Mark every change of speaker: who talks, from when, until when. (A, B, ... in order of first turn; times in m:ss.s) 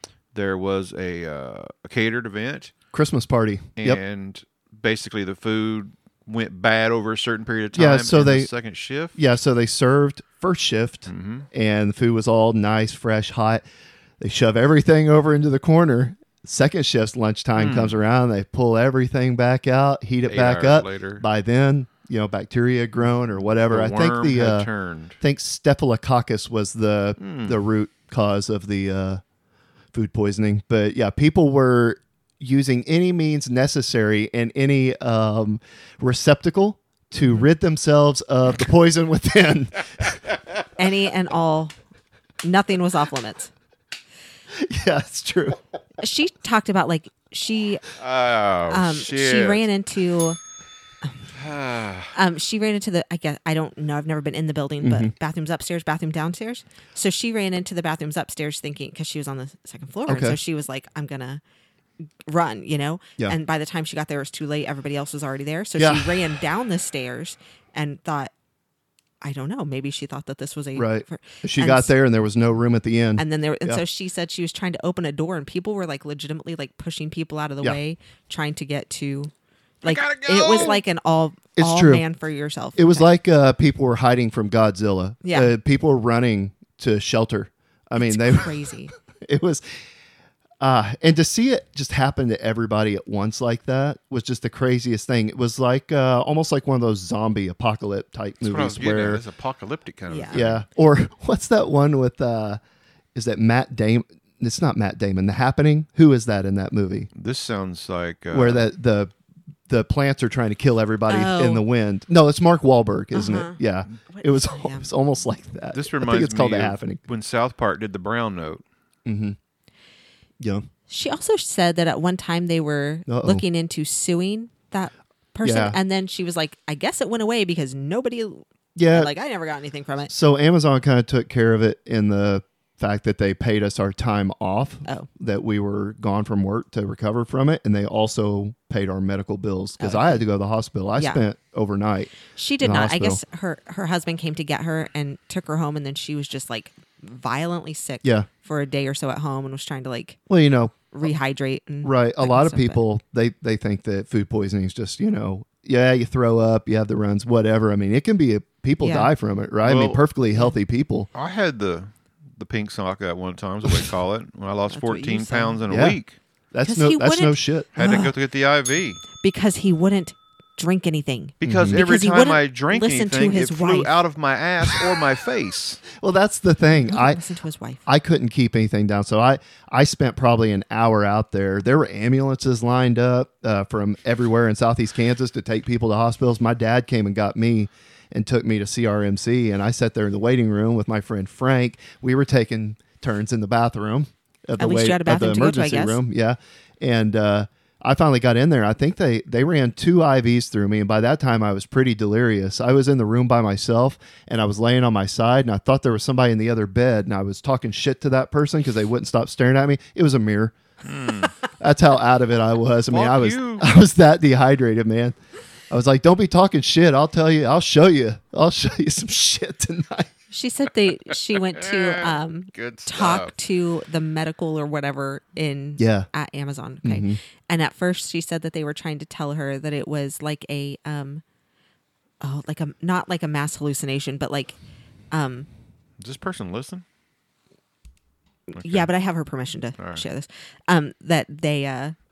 0:00.3-0:02.7 A
0:02.9-0:04.0 B
0:03.8-0:09.2 A
0:07.7-0:08.5 B
0:09.2-0:13.6 B
0:11.1-0:11.5 A
0:14.2-0:29.2 B
0:17.6-0:18.0 A
0:20.3-0:21.2 A
0:23.7-0:25.2 A
0:27.2-0:27.6 A
0:29.9-0:40.2 B
0:40.8-0:41.7 C
0:42.4-0:43.5 C
0:44.5-0:45.6 B
0:46.0-0:47.8 C
0:48.0-0:49.6 A
0:48.7-0:50.4 C
0:51.3-0:52.1 A
0:52.1-1:01.4 C
0:54.8-0:55.1 B
1:00.1-1:00.4 B
1:02.3-1:08.3 C
1:05.8-1:06.1 B
1:09.2-1:12.0 C
1:10.8-1:13.8 B
1:13.2-1:19.3 C
1:19.8-1:20.8 A
1:19.8-1:23.1 C
1:21.6-1:22.0 B
1:22.8-1:28.6 B
1:25.2-1:25.5 C
1:28.0-1:28.9 C
1:29.2-1:29.6 B
1:30.6-1:39.2 B
1:38.4-1:40.6 A
1:40.1-1:40.4 C
1:40.3-1:42.6 B
1:43.2-1:47.1 B
1:47.2-1:48.7 A
1:48.3-1:49.1 B
1:49.7-1:57.0 B
1:51.1-1:51.6 C
1:53.1-1:54.9 C
1:55.7-1:58.6 A
1:59.1-1:59.4 B
2:00.4-2:00.6 B
2:00.9-2:10.1 C
2:03.1-2:03.4 B
2:05.4-2:05.8 B
2:08.8-2:09.1 B
2:10.1-2:23.2 B
2:19.8-2:20.2 C
2:22.3-2:30.2 C
2:28.0-2:28.3 B
2:30.3-2:30.8 B
2:30.9-2:32.8 C
2:31.8-2:41.1 B
2:38.8-2:39.1 C
2:39.6-2:40.0 A
2:41.1-2:46.2 A
2:44.7-2:45.6 C
2:45.7-2:46.0 B
2:46.5-2:48.0 B
2:46.6-2:48.1 C
2:47.8-2:49.0 A
2:49.2-2:54.0 C
2:51.4-2:55.8 A
2:51.4-2:51.8 B
2:55.9-2:57.2 B
2:56.7-2:57.8 C
2:57.9-3:30.6 B
3:14.6-3:16.0 C
3:30.8-3:31.3 A
3:31.6-3:35.2 B
3:32.9-3:33.7 A
3:35.7-3:40.1 B
3:40.3-3:51.2 C
3:41.1-3:43.3 A
3:45.8-3:46.1 B
3:46.8-3:47.2 B
3:52.2-3:54.6 C
3:55.1-3:55.5 C
3:56.0-3:56.8 A
3:58.5-4:02.0 C
3:58.6-3:58.9 A
3:59.8-4:00.0 A